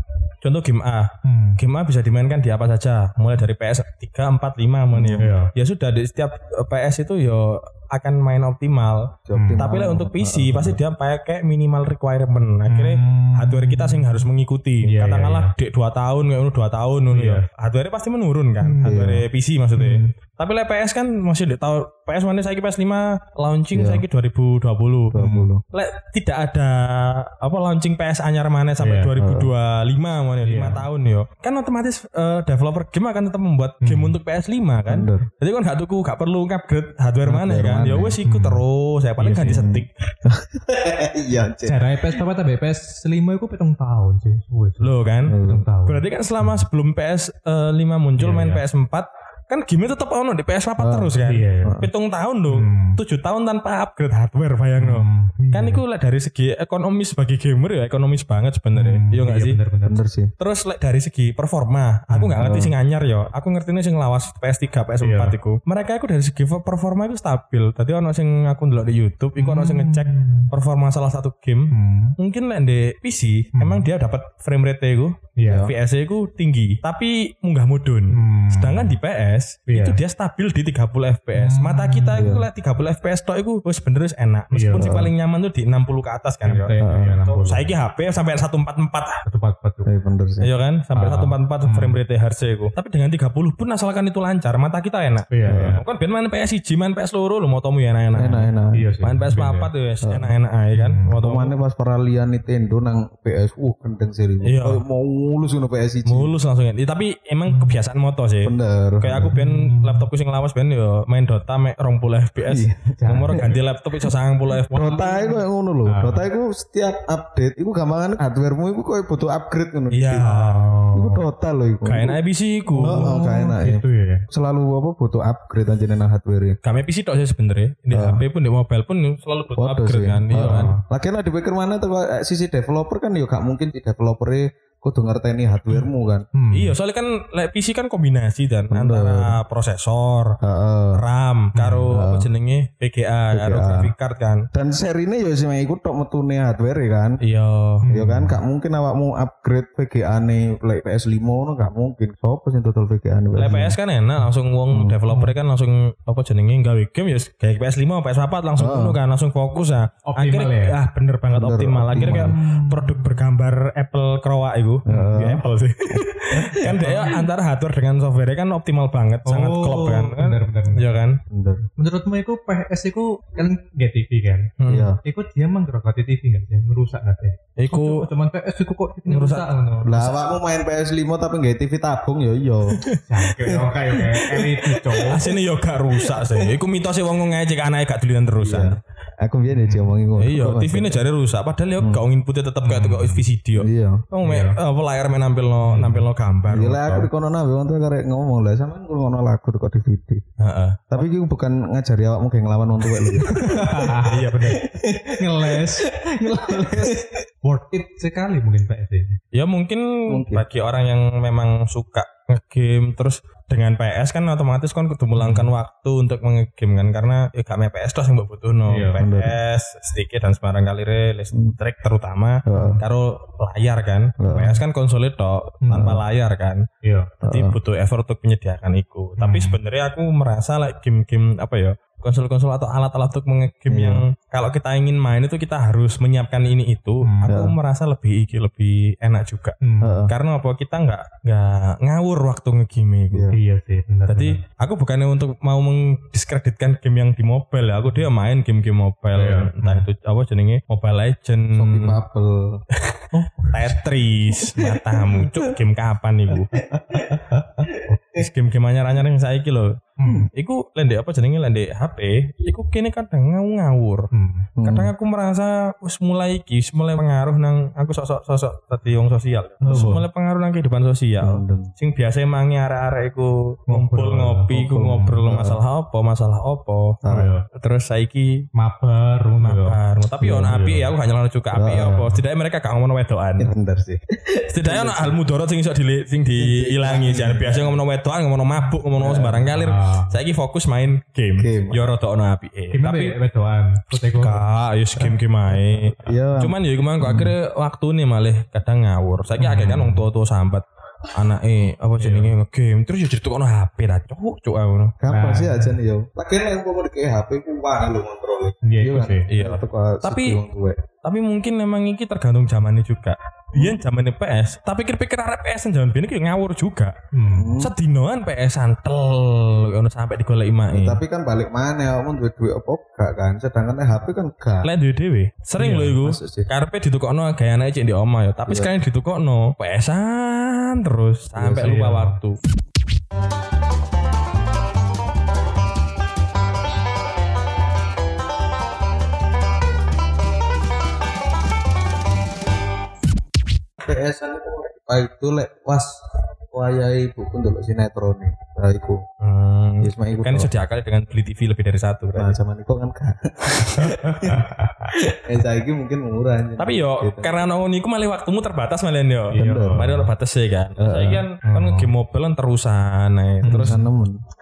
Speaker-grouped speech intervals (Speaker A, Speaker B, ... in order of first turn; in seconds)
Speaker A: 0.4-39.9, 44.8-59.6, 60.4-89.2, 90.4-101.5, 104.4-104.8, 106.1-115.3, 119.9-120.6, 121.8-123.2, 126.6-130.7, 136.5-140.4, 140.9-144.5, 147.2-147.9, 153.4-171.2, 174.6-174.9, 177.6-178.1, 179.1-179.5, 182.7-183.0, 185.0-188.8, 190.2-197.1, 200.4-201.0, 204.1-204.6, 209.3-226.6, 227.2-243.3, 244.1-252.0, 252.8-256.6, 258.1-264.1, 264.6-278.4, 279.4-283.5, 284.5-293.1, 294.1-305.0, 309.3-310.4, 311.0-316.9, 317.6-321.0, 324.6-332.4, 349.2-352.4, 353.9-354.4, 356.6-363.8
Speaker B: 1.2-1.6, 5.2-5.5, 9.3-9.7, 12.7-14.2, 14.8-15.5, 17.1-17.5, 18.6-19.0, 19.8-20.1, 25.2-25.5, 28.8-29.1, 30.4-30.9, 33.8-34.2, 38.2-38.6, 39.2-39.6, 41.6-46.6, 48.2-48.6, 51.2-51.8, 52.5-53.0, 54.8-55.8, 58.8-60.0, 62.1-62.6, 65.0-65.4, 69.4-70.5, 71.7-72.2, 73.5-73.9, 75.4-75.7, 78.1-79.0, 79.7-80.0, 81.3-82.3, 84.5-85.0, 86.5-87.7, 89.3-89.9, 90.9-92.0, 95.3-95.8, 98.7-99.7, 100.7-101.2, 107.5-107.8, 109.2-110.1, 113.0-113.6, 114.9-115.3, 115.9-116.3, 120.2-121.2, 122.7-124.2, 130.3-130.8, 135.7-136.8, 141.5-141.9, 147.8-148.4, 155.1-155.3, 160.1-160.8, 161.9-163.2, 166.5-167.2, 169.2-170.9, 171.8-180.2, 183.0-185.3, 189.5-189.9, 192.6-193.2, 194.2-194.6, 195.6-196.1, 203.2-209.2, 215.2-215.5, 218.7-219.0, 225.6-226.0, 226.8-227.1, 229.2-229.6, 237.0-237.3, 239.6-240.0, 243.3-244.4, 249.2-249.9, 253.1-253.8, 260.0-260.3, 264.1-264.5, 269.6-270.0, 273.7-274.8, 277.1-277.5, 278.6-280.9, 289.5-290.2, 292.7-294.4, 295.0-295.8, 299.4-300.1, 302.0-302.3, 305.1-305.8, 308.6-309.3, 317.1-317.6, 325.6-326.0, 331.6-332.2, 359.3-360.1, 361.4-361.9, 363.4-363.8
Speaker C: 4.9-5.3, 9.3-10.8, 18.8-19.3, 23.7-24.0, 25.1-25.6, 29.2-29.5, 34.9-35.3, 37.2-38.2, 39.4-42.0, 45.3-45.7, 50.8-51.9, 59.9-60.3, 62.4-62.7, 82.2-82.5, 84.7-85.1, 86.8-87.2, 89.9-90.5, 95.5-95.8, 98.1-98.9, 100.0-100.3, 101.1-106.3, 108.4-109.3, 112.4-113.5, 114.7-120.3, 120.9-122.2, 122.8-126.6, 127.9-128.2, 129.6-136.3, 138.7-139.3, 140.4-141.0, 141.9-142.3, 143.3-143.9, 144.5-147.2, 147.9-153.8, 154.7-155.0, 158.6-159.0, 161.3-162.3, 164.9-166.8, 171.3-171.7, 174.7-175.0, 179.8-182.8, 183.4-185.0, 186.0-186.5, 188.4-191.0, 193.6-194.1, 196.5-200.2, 200.9-207.2, 210.1-210.5, 219.0-219.4, 222.5-222.8, 224.2-224.6, 227.2-227.6, 233.7-234.0, 237.3-237.6, 239.8-240.1, 243.1-243.4, 251.5-252.6, 254.6-255.4, 256.5-258.3, 264.6-264.9, 269.7-270.0, 271.2-271.7, 274.5-275.6, 277.0-277.3, 280.2-280.6, 281.5-282.2, 283.4-285.2, 286.4-287.8, 289.0-289.6, 291.4-291.9, 296.0-297.4, 305.0-310.8, 317.3-317.8, 320.7-324.7, 326.0-326.5, 331.4-331.8, 343.8-349.0, 349.8-350.5, 352.1-357.5, 359.4-360.0, 360.8-361.2, 363.5-364.2